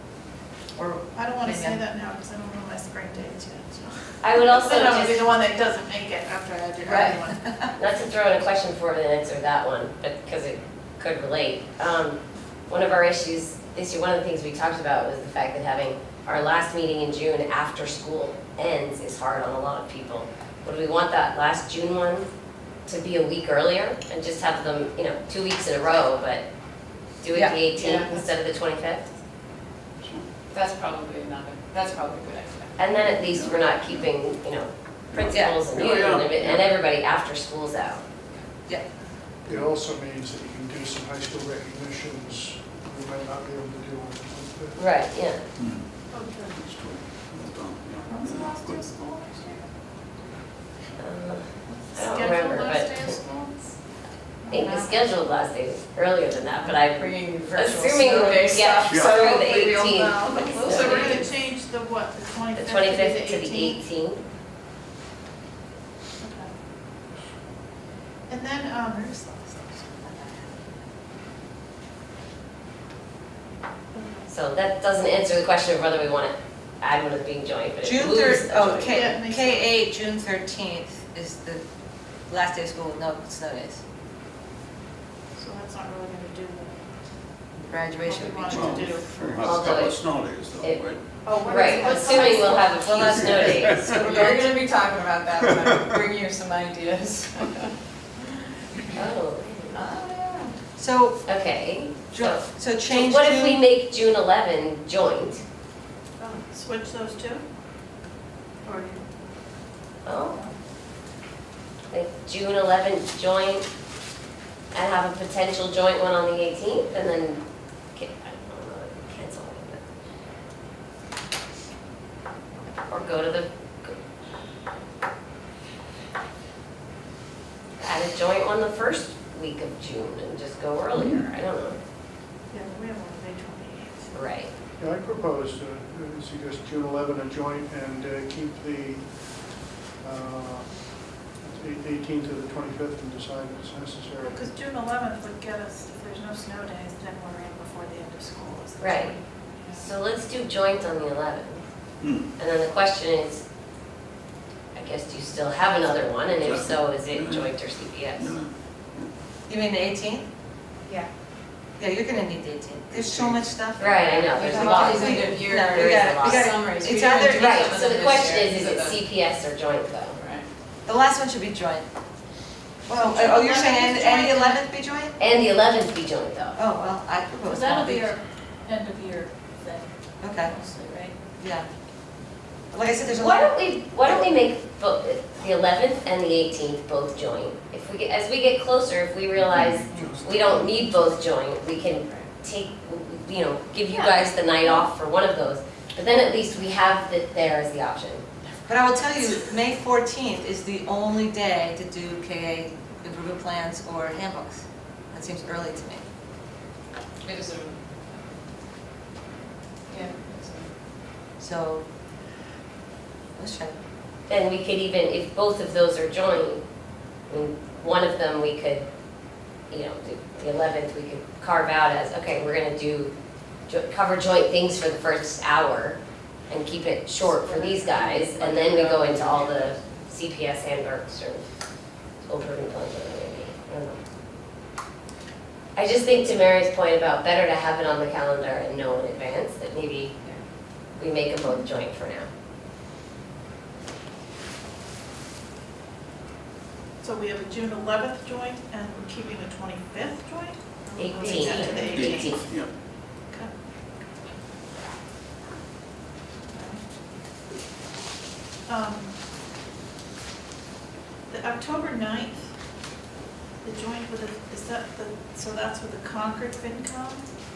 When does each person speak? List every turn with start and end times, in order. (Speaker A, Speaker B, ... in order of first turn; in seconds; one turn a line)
Speaker A: 0.8-1.8
Speaker B: 1.1-7.6
Speaker C: 4.2-5.2
Speaker A: 6.8-7.7
Speaker C: 7.8-22.3
Speaker C: 22.9-26.4
Speaker C: 27.1-29.1
Speaker D: 27.7-28.2
Speaker E: 30.0-30.2
Speaker D: 30.5-32.8
Speaker C: 32.8-38.0
Speaker E: 33.0-34.1
Speaker E: 35.1-36.8
Speaker F: 39.5-44.8
Speaker C: 44.8-45.4
Speaker E: 45.6-45.8
Speaker B: 46.1-46.5
Speaker E: 46.5-48.9
Speaker B: 48.1-49.7
Speaker C: 51.0-53.1
Speaker B: 51.6-53.8
Speaker B: 54.5-55.0
Speaker C: 54.5-61.2
Speaker D: 56.6-59.6
Speaker E: 58.9-59.1
Speaker B: 59.1-63.8
Speaker D: 60.3-61.2
Speaker C: 62.5-64.2
Speaker B: 66.2-66.5
Speaker B: 68.3-70.6
Speaker B: 73.9-74.3
Speaker C: 74.3-79.0
Speaker A: 77.8-81.6
Speaker B: 78.9-79.7
Speaker A: 82.3-83.8
Speaker B: 85.3-86.9
Speaker A: 87.7-89.0
Speaker B: 88.0-89.4
Speaker E: 88.5-91.3
Speaker C: 89.4-90.0
Speaker B: 91.2-92.4
Speaker C: 91.5-93.8
Speaker A: 91.5-94.5
Speaker E: 93.1-94.1
Speaker D: 93.9-97.7
Speaker C: 98.9-99.8
Speaker D: 99.7-100.5
Speaker A: 100.8-101.2
Speaker C: 101.2-105.4
Speaker A: 102.1-103.6
Speaker B: 106.2-107.5
Speaker B: 108.6-109.0
Speaker C: 110.0-110.4
Speaker B: 110.3-110.5
Speaker C: 111.9-113.6
Speaker C: 114.7-117.4
Speaker C: 118.0-119.8
Speaker C: 122.9-124.0
Speaker C: 127.8-131.8
Speaker B: 132.5-134.2
Speaker C: 134.1-134.5
Speaker F: 134.8-144.4
Speaker B: 144.2-149.8
Speaker C: 148.8-149.1
Speaker C: 149.7-151.6
Speaker C: 152.4-153.4
Speaker C: 154.7-158.3
Speaker E: 156.4-157.6
Speaker E: 158.2-159.1
Speaker A: 159.5-160.3
Speaker A: 161.8-167.8
Speaker E: 162.9-163.4
Speaker C: 163.8-166.6
Speaker D: 164.3-169.0
Speaker C: 167.3-170.2
Speaker D: 170.2-170.4
Speaker A: 170.8-171.9
Speaker A: 172.8-175.1
Speaker B: 172.9-174.6
Speaker C: 175.2-176.6
Speaker A: 176.6-178.1
Speaker B: 177.4-181.2
Speaker A: 180.2-180.5
Speaker A: 181.4-181.7
Speaker A: 182.7-183.5
Speaker C: 183.2-198.2
Speaker E: 189.5-190.7
Speaker B: 194.0-194.8
Speaker A: 198.7-206.0
Speaker D: 207.2-208.2
Speaker D: 209.9-210.7
Speaker A: 211.4-211.8
Speaker A: 213.3-213.8
Speaker C: 214.3-216.6
Speaker C: 217.3-218.9
Speaker C: 219.7-223.1
Speaker C: 223.7-231.4
Speaker D: 227.4-229.9
Speaker C: 232.2-234.0
Speaker C: 235.7-240.1
Speaker C: 241.0-242.3
Speaker B: 247.0-252.4
Speaker C: 251.0-252.4
Speaker E: 251.5-252.7
Speaker B: 256.5-256.8
Speaker B: 258.6-259.1
Speaker B: 261.3-262.5
Speaker B: 263.6-267.3